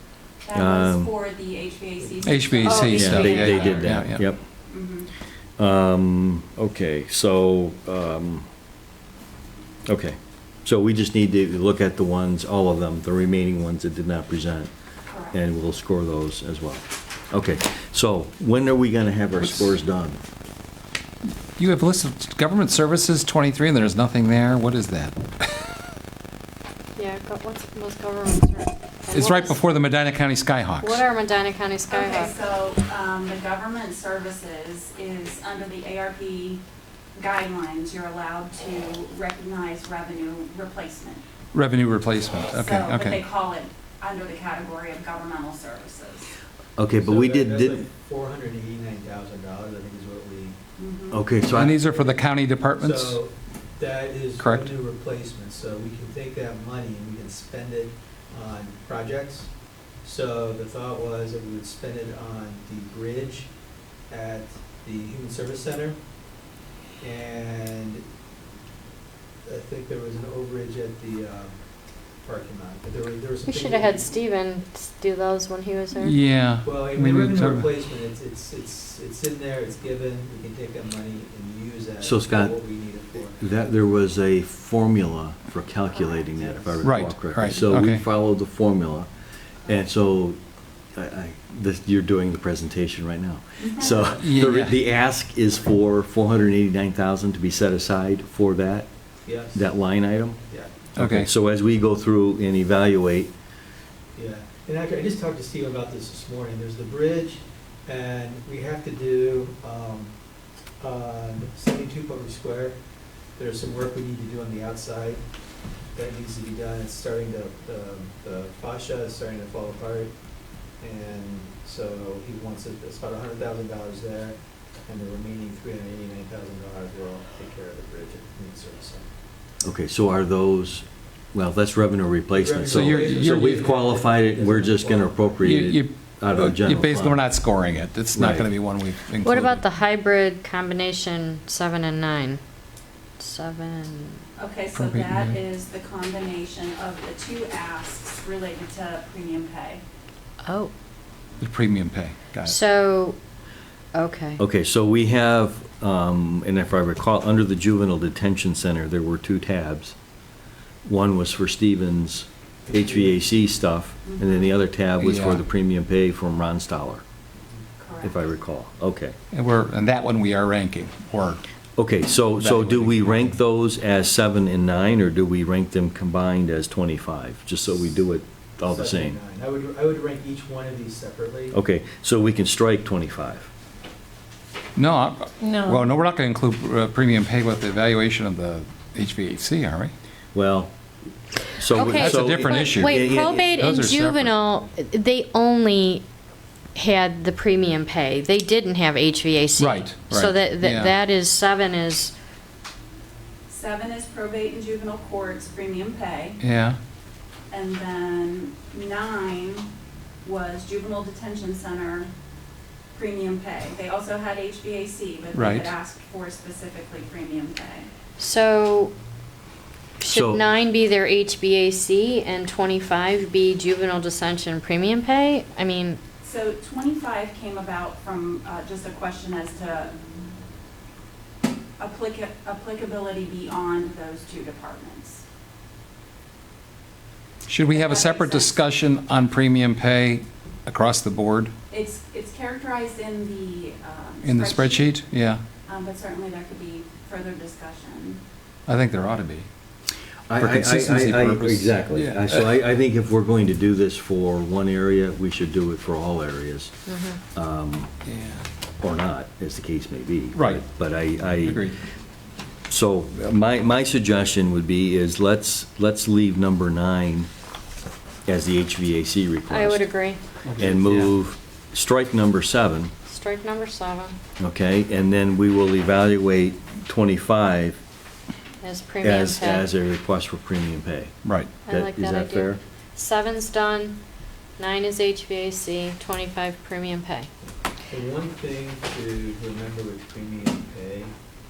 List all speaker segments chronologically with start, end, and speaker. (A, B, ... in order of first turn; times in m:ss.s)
0:00.4-0:03.9 A
0:00.5-0:01.1 B
0:02.2-0:04.2 C
0:02.6-0:03.9 D
0:02.9-0:04.4 B
0:04.7-0:05.1 A
0:05.6-0:08.4 B
0:09.8-0:14.7 B
0:15.1-0:15.4 A
0:15.3-0:20.2 B
0:21.6-0:25.6 C
0:27.0-0:29.6 D
0:29.1-0:31.0 C
0:30.8-0:32.3 D
0:31.9-0:36.6 A
0:37.1-0:41.2 A
0:41.5-0:43.2 C
0:42.5-0:46.3 A
0:46.8-0:47.8 B
0:46.9-0:50.6 E
0:50.8-0:51.2 A
0:51.1-0:51.8 B
0:51.5-0:53.2 C
0:52.8-0:59.5 E
0:54.4-0:54.7 C
1:00.0-1:03.5 E
1:04.1-1:06.0 E
1:07.0-1:08.0 E
1:09.4-1:11.6 E
1:12.2-1:14.1 E
1:13.4-1:16.1 D
1:16.0-1:17.7 C
1:16.6-1:23.4 E
1:22.0-1:22.6 B
1:23.4-1:29.1 B
1:26.3-1:26.8 E
1:26.8-1:28.0 C
1:29.6-1:30.4 B
1:30.9-1:38.9 B
1:33.6-1:34.1 A
1:34.2-1:34.8 C
1:39.2-1:39.6 E
1:39.5-1:40.4 B
1:40.5-1:40.9 E
1:41.0-1:41.3 C
1:41.0-1:43.3 B
1:44.1-1:50.1 E
1:50.8-1:52.8 E
1:53.4-1:55.2 E
1:55.9-2:00.1 E
2:00.8-2:04.4 E
2:04.9-2:09.1 E
2:09.6-2:17.2 B
2:12.3-2:15.4 E
2:12.7-2:13.7 C
2:15.4-2:19.6 C
2:18.1-2:18.5 B
2:19.2-2:22.4 D
2:23.2-2:24.2 D
2:24.4-2:29.8 A
2:24.7-2:25.4 C
2:30.4-2:30.7 D
2:31.4-2:32.6 C
2:32.4-2:33.2 D
2:33.9-2:34.4 D
2:34.4-2:40.0 B
2:40.8-2:47.0 B
2:45.0-2:45.4 C
2:47.8-2:48.2 A
2:48.0-2:49.2 B
2:49.3-2:51.4 C
2:51.8-2:59.2 B
2:52.4-2:53.3 C
2:58.6-3:01.6 E
3:01.5-3:03.5 B
3:04.8-3:09.9 C
3:05.4-3:05.8 D
3:10.3-3:10.7 B
3:11.5-3:13.5 B
3:11.7-3:16.0 D
3:11.8-3:14.3 C
3:16.7-3:22.1 D
3:19.6-3:20.9 C
3:23.5-3:26.4 A
3:26.4-3:26.8 C
3:27.5-3:29.7 A
3:30.2-3:32.1 A
3:32.9-3:37.9 A
3:35.3-3:35.7 C
3:38.2-3:38.9 D
3:40.0-3:46.0 D
3:40.1-3:40.4 B
3:46.2-3:49.9 A
3:51.8-3:55.2 A
3:57.5-4:01.5 C
3:57.7-3:58.5 A
4:01.7-4:04.9 A
4:04.2-4:05.4 C
4:05.6-4:08.2 A
4:08.7-4:09.5 C
4:10.3-4:16.7 B
4:10.3-4:12.6 C
4:16.9-4:17.2 D
4:17.3-4:17.9 B
4:18.0-4:18.4 C
4:18.8-4:21.7 B
4:20.3-4:20.6 C
4:21.4-4:21.8 C
4:22.7-4:27.3 B
4:28.2-4:29.9 B
4:29.5-4:30.2 D
4:30.4-4:31.1 C
4:30.6-4:32.9 B
4:33.1-4:34.2 D
4:34.4-4:37.8 B
4:38.6-4:39.7 D
4:39.0-4:41.1 B
4:41.2-4:41.6 C
4:41.6-4:44.0 D
4:41.7-4:42.6 B
4:44.6-4:47.3 D
4:47.9-4:51.1 E